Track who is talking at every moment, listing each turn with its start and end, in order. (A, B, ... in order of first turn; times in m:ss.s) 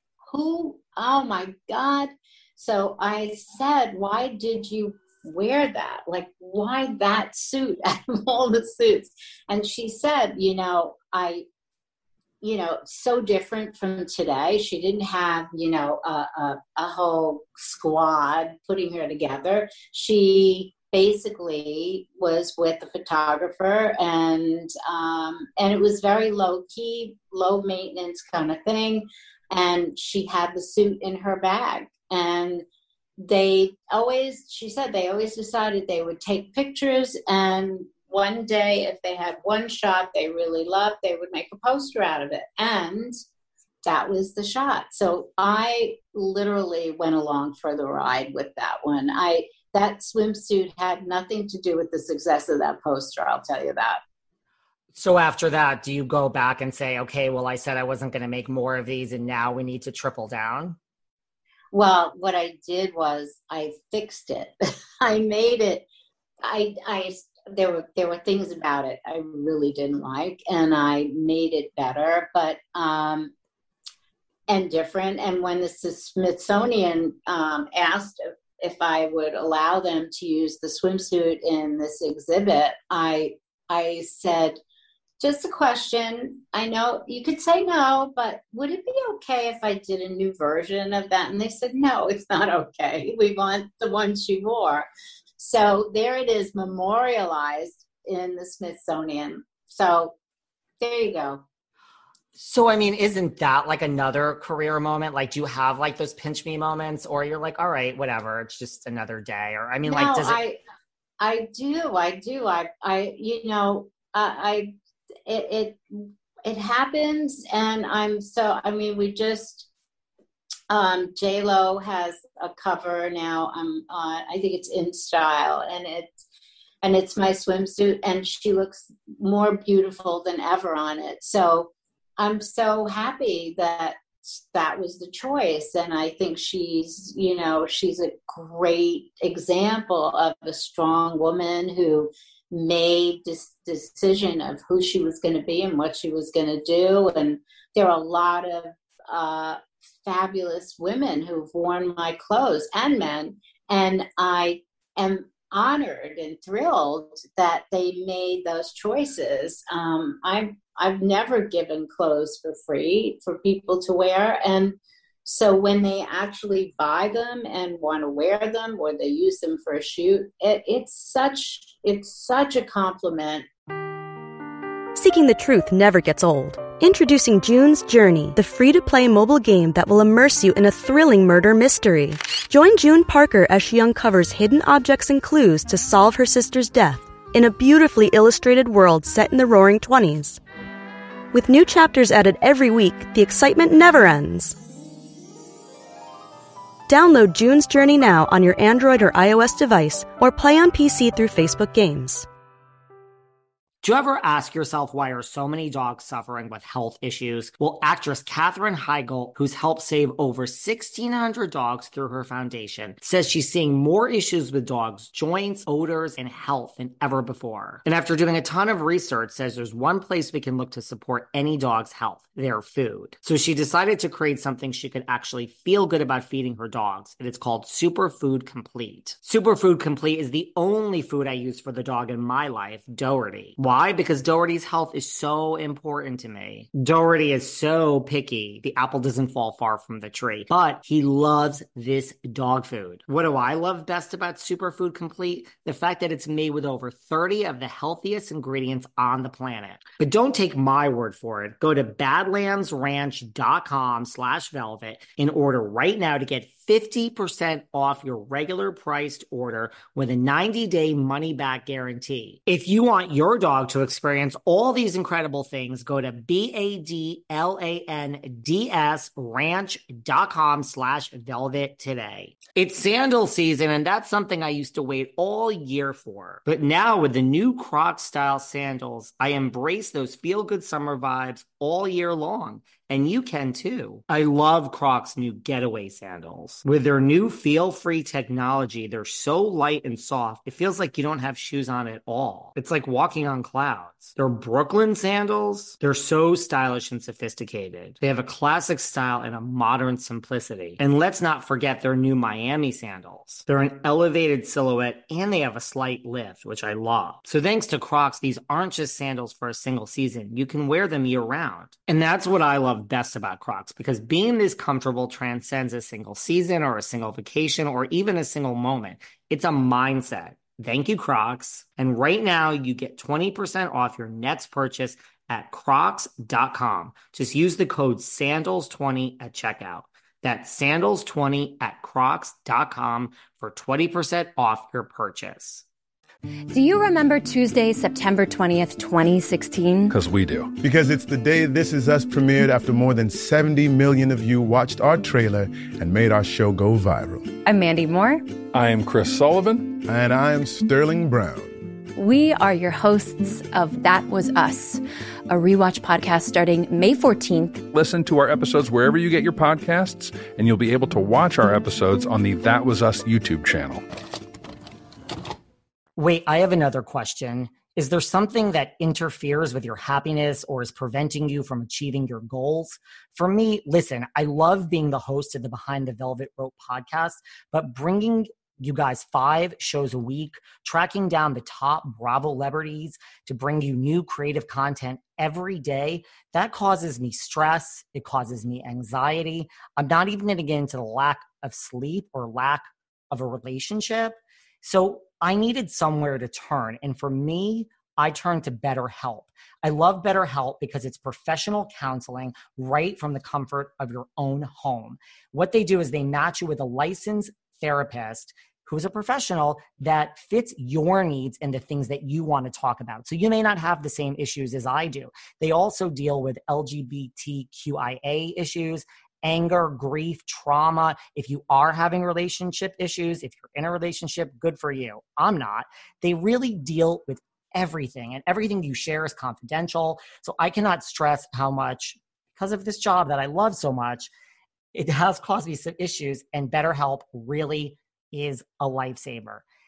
0:00.2-0:11.4 A
0:12.4-0:32.6 A
0:33.2-0:43.2 A
0:43.8-0:54.0 A
0:55.0-1:00.8 B
1:01.7-1:05.9 A
1:06.4-1:13.3 A
1:14.5-1:24.6 A
1:25.2-1:40.2 A
1:40.8-1:41.4 A
1:42.4-1:50.4 B
1:49.9-1:50.6 A
1:51.2-1:54.7 A
1:55.3-1:59.7 A
2:00.7-2:06.2 A
2:06.8-2:53.5 A
2:55.0-3:10.4 C
3:11.3-3:14.6 C
3:16.9-3:22.3 C
3:23.8-5:35.6 B
5:36.5-5:40.0 D
5:39.9-5:40.6 E
5:40.6-5:47.3 F
5:47.4-5:48.4 D
5:48.5-5:49.8 E
5:49.8-5:51.5 F
5:52.0-5:57.7 D
5:57.7-6:03.8 E
6:06.0-7:14.1 B
7:14.7-7:19.4 B